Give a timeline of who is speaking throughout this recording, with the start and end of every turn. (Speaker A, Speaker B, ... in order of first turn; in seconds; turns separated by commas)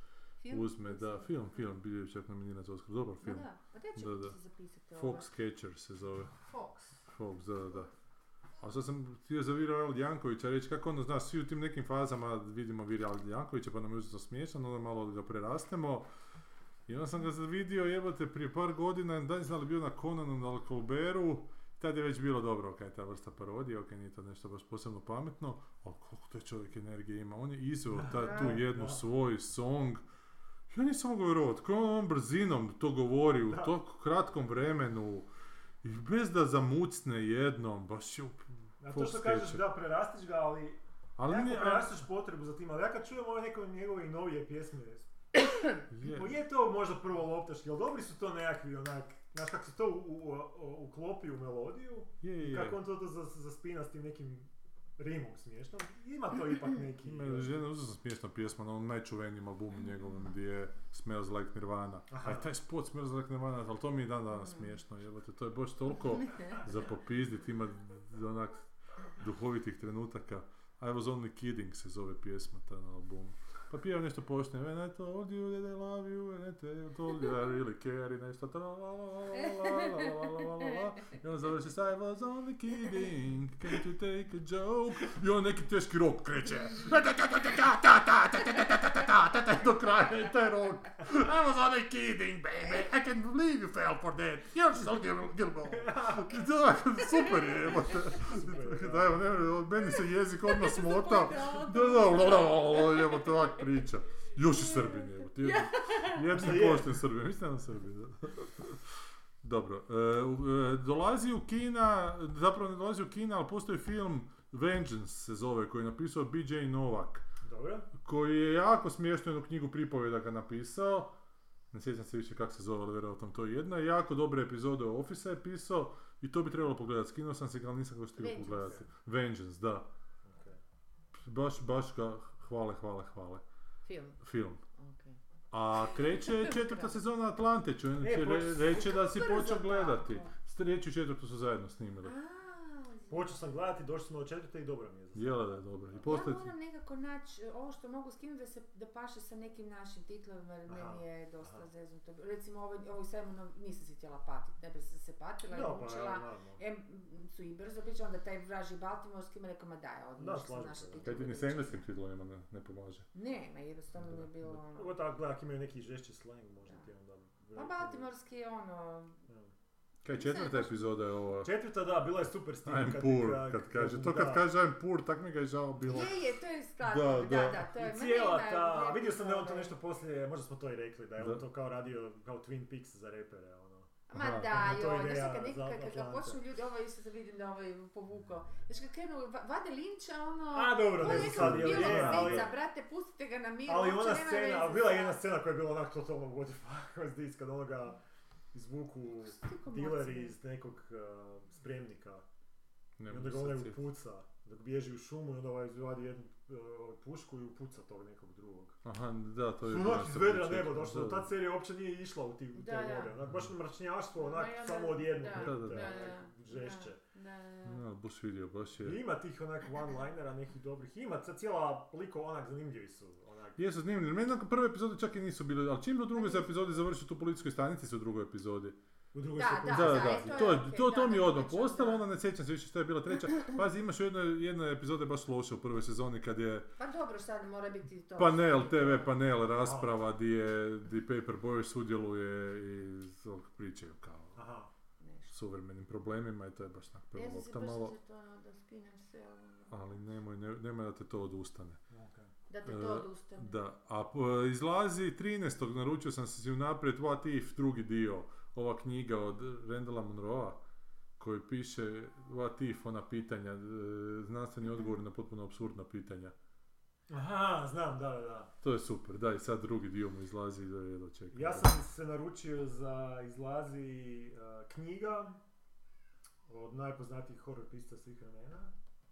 Speaker A: 0.4-1.6, Speaker B: 0.5-4.4, Speaker A: 3.2-5.3, Speaker B: 5.0-6.4, Speaker A: 6.5-7.0, Speaker B: 7.1-7.9, Speaker B: 8.6-16.1, Speaker B: 16.9-30.0, Speaker C: 28.0-29.0, Speaker A: 28.1-28.6, Speaker B: 30.7-35.3, Speaker C: 33.5-33.8, Speaker B: 35.8-39.6, Speaker C: 38.8-45.1, Speaker B: 41.2-41.9, Speaker A: 45.5-45.8, Speaker B: 45.9-46.4, Speaker C: 46.0-57.6, Speaker B: 52.2-52.8, Speaker B: 57.0-108.9, Speaker C: 62.1-62.5, Speaker A: 79.4-80.7, Speaker C: 95.7-96.3, Speaker C: 97.5-99.3, Speaker A: 100.5-102.8, Speaker A: 105.4-106.5, Speaker C: 106.3-107.0, Speaker B: 109.4-117.2, Speaker C: 117.4-117.9, Speaker B: 118.0-121.2, Speaker B: 121.7-129.9, Speaker A: 128.2-128.8, Speaker C: 130.2-130.6, Speaker B: 131.2-133.4, Speaker A: 133.8-134.2, Speaker B: 134.2-134.6, Speaker A: 134.8-135.2, Speaker B: 135.5-142.1, Speaker A: 135.8-137.0, Speaker C: 138.0-138.9, Speaker A: 138.6-140.3, Speaker A: 142.0-143.4, Speaker C: 143.1-146.2, Speaker B: 145.2-146.5, Speaker A: 146.0-161.8, Speaker C: 150.7-151.7, Speaker C: 155.5-156.6, Speaker C: 160.2-161.2, Speaker B: 161.0-163.1, Speaker A: 163.1-165.0, Speaker C: 164.1-168.1, Speaker A: 167.6-169.2, Speaker B: 170.0-171.5, Speaker A: 170.1-170.9, Speaker C: 171.4-174.5, Speaker B: 172.7-176.2, Speaker A: 175.9-179.8, Speaker B: 176.8-177.7, Speaker C: 177.7-186.4, Speaker A: 184.1-195.2, Speaker B: 184.2-184.6, Speaker C: 190.5-192.6, Speaker B: 191.0-192.5, Speaker C: 193.7-198.0, Speaker C: 198.5-202.2, Speaker A: 199.3-200.3, Speaker B: 203.0-203.8, Speaker C: 203.1-208.8, Speaker B: 208.8-211.3, Speaker C: 209.6-217.0, Speaker A: 212.5-213.1, Speaker B: 213.3-213.5, Speaker A: 214.2-217.8, Speaker B: 215.4-216.0, Speaker B: 217.7-219.0, Speaker C: 218.8-223.6, Speaker B: 223.6-228.8, Speaker A: 226.1-226.8, Speaker C: 229.1-230.4, Speaker A: 229.4-232.1, Speaker B: 229.7-236.7, Speaker A: 236.8-239.1, Speaker B: 238.2-244.4, Speaker C: 239.6-239.9, Speaker C: 244.3-244.7, Speaker A: 245.0-245.3, Speaker B: 245.3-247.9, Speaker A: 247.1-249.8, Speaker B: 249.7-251.8, Speaker C: 251.9-252.3, Speaker A: 252.5-253.6, Speaker B: 252.7-260.6, Speaker B: 261.2-266.4, Speaker C: 267.1-268.5, Speaker B: 268.6-271.7, Speaker C: 271.3-275.4, Speaker C: 276.5-278.7